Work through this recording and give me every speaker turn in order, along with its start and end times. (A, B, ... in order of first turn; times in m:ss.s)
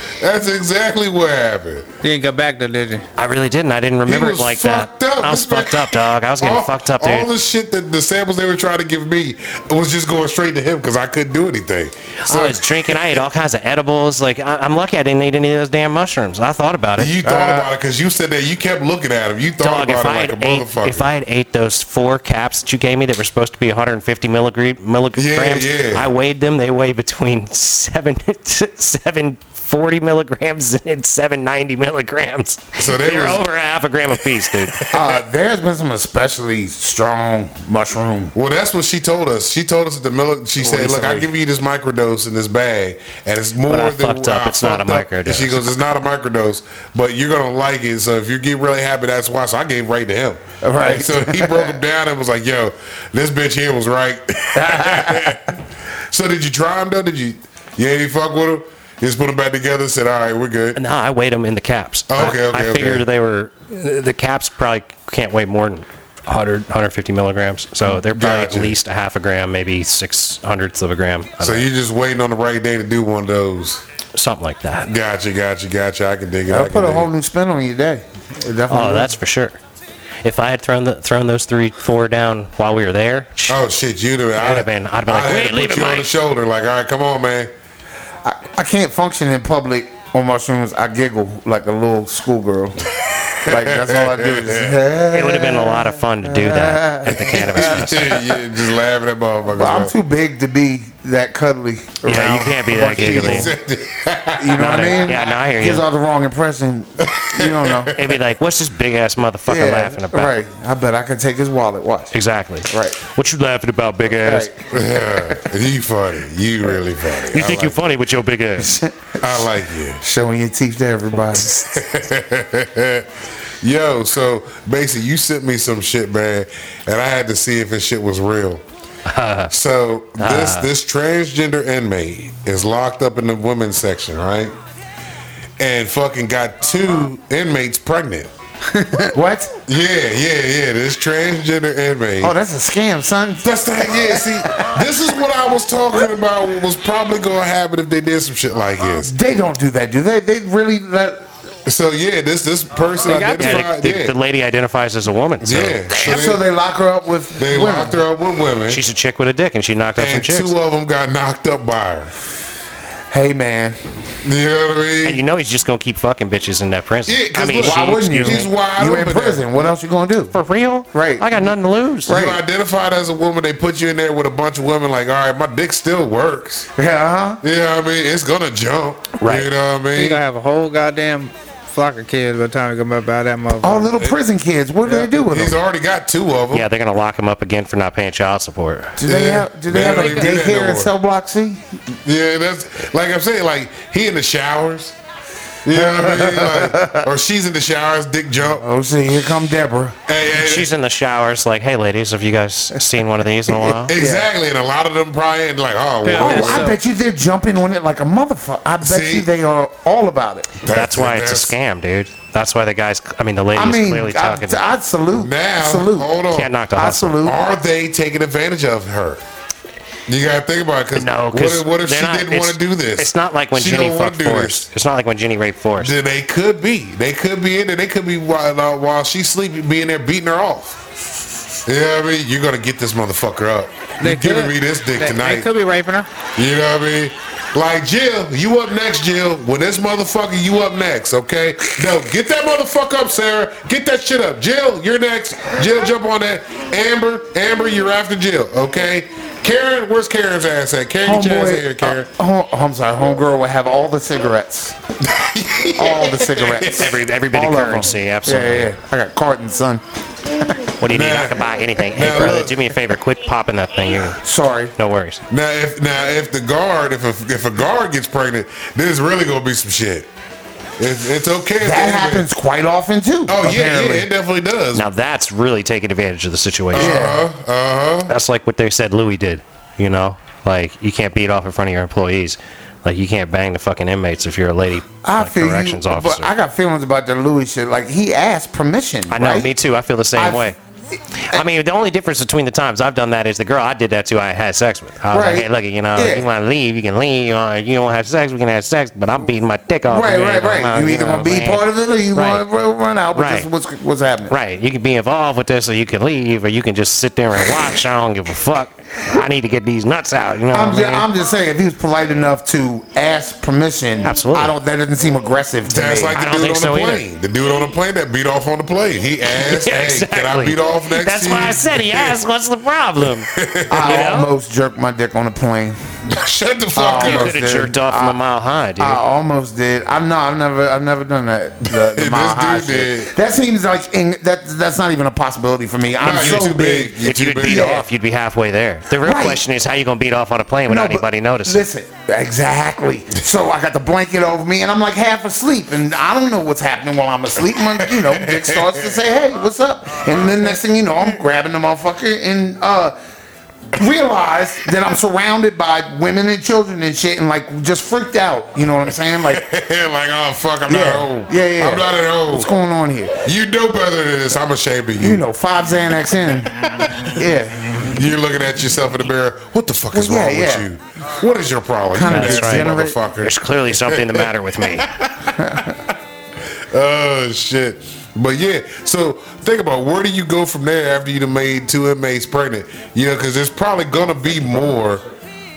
0:00.2-0:01.9 A
0:02.0-0:03.0 B
0:03.2-0:07.3 C
0:04.1-0:13.2 A
0:12.2-0:17.2 C
0:17.0-0:21.1 A
0:17.2-0:17.7 D
0:19.6-0:34.8 C
0:25.2-0:26.1 A
0:32.8-0:33.4 A
0:34.6-0:35.1 A
0:34.9-0:38.3 D
0:38.3-0:55.6 A
0:40.6-0:41.3 D
0:43.7-0:45.7 C
0:50.6-0:51.8 D
0:54.6-0:55.4 D
0:56.1-1:00.8 A
1:00.8-1:11.7 C
1:02.1-1:03.0 A
1:07.9-1:08.8 A
1:11.4-1:13.8 A
1:14.1-1:14.9 C
1:14.9-1:17.1 A
1:16.5-1:19.2 D
1:18.7-1:19.6 C
1:20.2-1:23.6 C
1:23.5-1:27.5 A
1:24.4-1:26.1 C
1:28.2-1:32.8 D
1:33.3-1:34.8 A
1:33.4-1:38.4 D
1:35.1-1:38.2 C
1:37.2-1:39.9 A
1:39.5-1:43.6 D
1:42.0-1:43.5 C
1:42.9-1:45.2 A
1:44.4-1:47.9 D
1:44.5-1:45.8 C
1:47.0-1:48.2 A
1:47.9-1:50.4 C
1:49.5-1:52.1 D
1:52.1-1:54.5 C
1:52.7-1:53.0 D
1:54.2-1:55.4 D
1:54.7-1:57.7 A
1:57.3-1:58.8 C
1:58.6-2:01.6 D
1:59.2-2:00.0 A
2:01.3-2:03.1 A
2:03.6-2:08.6 A
2:09.1-2:09.5 C
2:09.5-2:14.5 A
2:10.2-2:10.7 C
2:15.6-2:18.3 A
2:18.7-2:19.6 D
2:19.7-2:22.3 A
2:22.2-2:24.9 D
2:23.4-2:29.1 A
2:29.0-2:31.3 D
2:31.7-2:34.2 A
2:33.0-2:33.6 B
2:33.3-2:36.3 C
2:35.4-2:36.4 A
2:36.0-2:38.0 D
2:37.4-2:38.8 A
2:38.7-2:40.5 C
2:40.0-2:42.1 A
2:43.1-2:43.8 D
2:44.2-2:45.2 A
2:45.0-2:48.5 C
2:47.1-2:49.5 A
2:47.6-2:50.4 D
2:50.3-2:52.2 C
2:50.9-2:51.4 D
2:52.1-2:52.4 D
2:52.1-2:56.7 A
2:56.8-2:57.4 D
2:57.4-3:00.2 A
2:59.2-2:59.5 C
2:59.9-3:03.9 B
3:03.6-3:05.6 D
3:05.1-3:06.7 A
3:06.5-3:09.0 C
3:09.0-3:11.6 D
3:09.0-3:10.9 A
3:09.8-3:10.3 B
3:12.0-3:15.0 A
3:15.6-3:18.7 A
3:15.7-3:17.1 D
3:18.6-3:20.0 D
3:20.1-3:20.7 A
3:20.3-3:23.9 C
3:23.5-3:24.3 D
3:23.9-3:26.7 A
3:26.0-3:26.8 B
3:26.2-3:30.6 D
3:28.8-3:29.3 A
3:30.6-3:31.5 A
3:30.7-3:34.6 C
3:33.5-3:36.2 D
3:35.2-3:36.5 A
3:36.3-3:37.2 C
3:36.7-3:37.4 D
3:37.2-3:39.2 A
3:40.1-3:44.6 A
3:40.9-3:46.0 C
3:45.8-3:50.8 A
3:51.7-3:55.5 A
3:54.0-3:56.1 B
3:56.4-4:12.1 A
4:11.0-4:14.8 D
4:15.0-4:17.0 A
4:15.8-4:20.7 D
4:16.7-4:18.8 C
4:20.8-4:24.2 C
4:20.9-4:22.7 A
4:24.2-4:24.7 D
4:24.8-4:25.2 C
4:25.3-4:30.1 A
4:30.8-4:32.3 A
4:31.6-4:34.1 D
4:33.3-4:34.9 A
4:34.7-4:37.1 C
4:36.7-4:38.1 A
4:36.7-4:37.3 D
4:38.1-4:46.3 C
4:45.0-4:49.5 D
4:49.1-4:50.6 C
4:50.2-4:50.5 D
4:51.2-5:02.4 C
4:55.1-4:56.3 D
4:59.9-5:04.3 D
5:03.1-5:03.5 C
5:04.3-5:11.1 C
5:10.5-5:16.2 D
5:14.0-5:14.5 C
5:15.7-5:22.2 A
5:16.1-5:17.0 C
5:19.2-5:24.3 C
5:23.3-5:24.0 A
5:23.7-5:25.8 D
5:26.1-5:27.4 A
5:26.7-5:28.2 D
5:27.0-5:29.0 C
5:28.8-5:37.8 D
5:31.7-5:33.1 A
5:36.0-5:37.8 A
5:36.1-5:36.5 C
5:37.0-5:41.6 C
5:39.0-5:39.4 D
5:40.7-5:53.0 D
5:47.9-5:48.9 A
5:53.7-5:59.4 D
5:59.2-6:02.5 A
6:00.7-6:03.3 D
6:03.2-6:05.2 A
6:05.0-6:06.5 D
6:06.6-6:07.2 A
6:07.1-6:07.8 D
6:07.8-6:15.8 A
6:09.9-6:10.7 D
6:11.9-6:13.0 D
6:12.1-6:14.9 C
6:15.4-6:15.7 D
6:16.7-6:25.0 A